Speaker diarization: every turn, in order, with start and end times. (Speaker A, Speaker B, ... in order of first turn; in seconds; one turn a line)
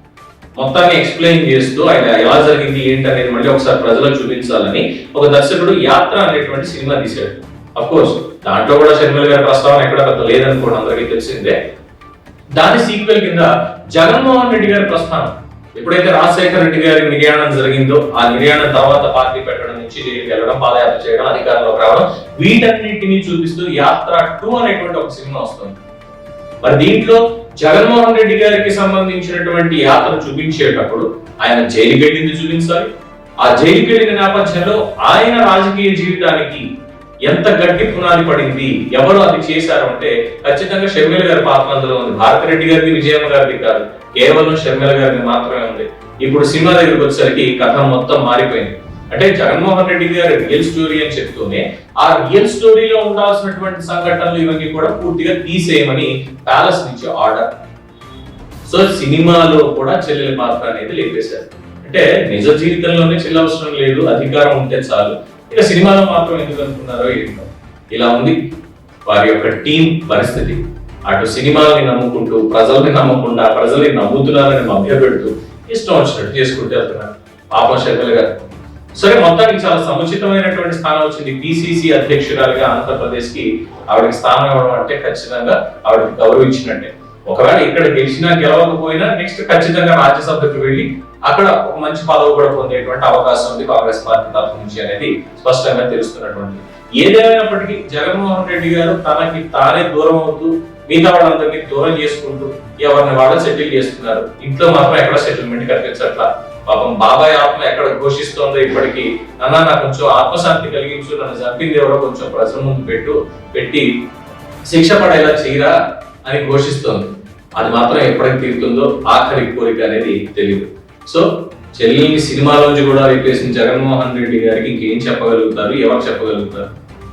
Speaker A: 0.6-11.6
Speaker A: 12.6-25.8
Speaker A: 26.6-32.9
Speaker A: 33.4-36.6
Speaker A: 37.2-57.5
Speaker A: 58.7-68.4
Speaker A: 69.0-113.9
Speaker A: 114.7-126.7